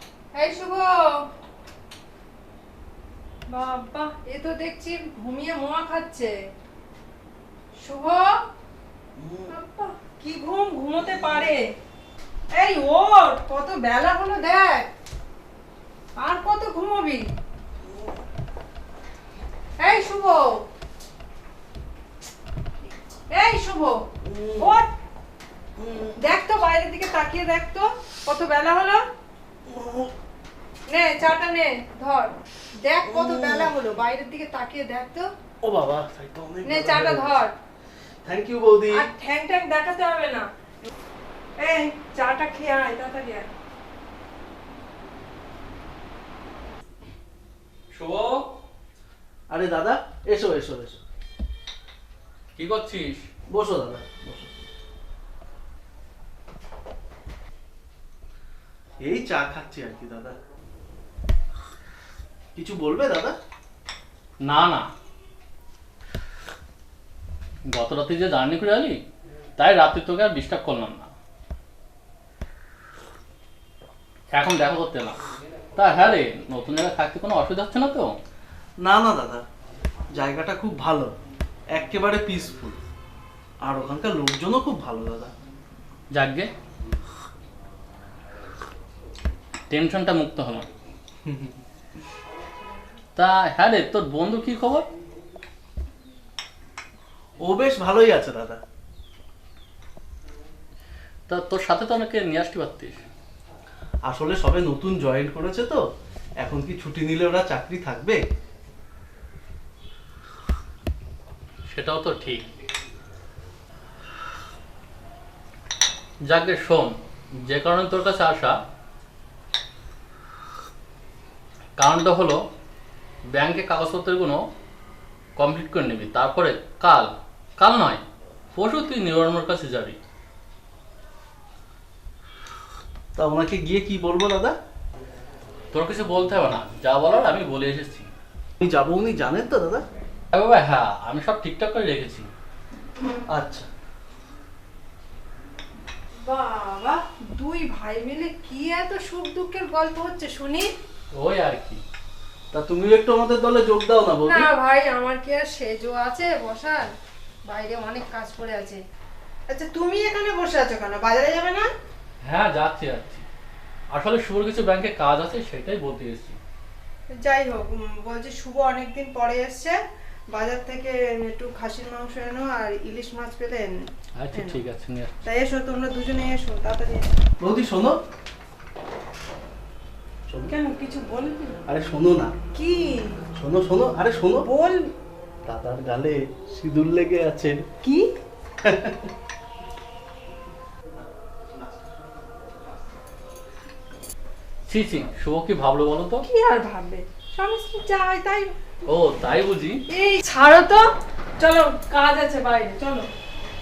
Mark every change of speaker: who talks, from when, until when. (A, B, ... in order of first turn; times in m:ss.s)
0:00.3-0:01.2 A
0:03.5-0:06.3 A
0:07.8-0:08.3 A
0:09.2-0:09.5 B
0:09.5-0:11.6 A
0:12.6-0:14.9 A
0:16.2-0:17.3 A
0:19.8-0:20.6 A
0:23.3-0:24.0 A
0:24.2-0:24.8 B
0:24.6-0:24.9 A
0:25.8-0:26.2 B
0:26.2-0:29.0 A
0:29.7-0:30.1 B
0:30.9-0:35.3 A
0:33.1-0:33.7 B
0:35.6-0:37.4 B
0:36.6-0:37.5 A
0:38.2-0:39.1 B
0:38.9-0:40.5 A
0:41.6-0:43.5 A
0:47.9-0:48.5 C
0:49.5-0:51.0 B
0:52.6-0:53.3 C
0:53.5-0:54.5 B
0:59.0-1:00.4 B
1:02.6-1:03.3 B
1:04.4-1:04.8 C
1:07.7-1:09.0 C
1:09.6-1:11.1 C
1:14.3-1:15.2 C
1:15.8-1:18.1 C
1:18.8-1:19.4 B
1:20.1-1:21.1 B
1:21.7-1:22.8 B
1:23.6-1:25.3 B
1:26.1-1:26.5 C
1:29.7-1:30.7 C
1:33.2-1:34.9 C
1:37.4-1:38.6 B
1:41.3-1:43.0 C
1:44.0-1:45.8 B
1:46.4-1:48.2 B
1:51.7-1:52.5 C
1:56.3-1:56.9 C
1:57.4-1:58.6 C
2:01.8-2:02.4 C
2:03.3-2:04.4 C
2:05.4-2:08.0 C
2:08.5-2:10.0 C
2:13.2-2:14.6 B
2:15.7-2:18.1 C
2:18.6-2:19.8 B
2:20.3-2:22.3 C
2:23.3-2:23.7 B
2:26.2-2:30.7 A
2:31.1-2:31.8 C
2:32.5-2:34.5 B
2:34.2-2:36.9 A
2:37.5-2:38.8 A
2:39.5-2:41.7 A
2:42.2-2:43.2 C
2:43.9-2:46.4 C
2:47.1-2:49.8 A
2:50.3-2:53.8 A
2:54.2-2:55.2 C
2:55.2-2:57.1 A
2:57.4-2:58.0 B
3:00.5-3:01.6 A
3:01.7-3:02.3 B
3:02.5-3:03.2 A
3:03.4-3:04.4 B
3:04.4-3:04.9 A
3:05.4-3:07.6 B
3:07.8-3:08.1 A
3:08.6-3:09.1 B
3:14.7-3:16.2 C
3:16.2-3:18.6 A
3:18.8-3:19.8 C
3:19.9-3:20.8 A
3:21.4-3:23.1 A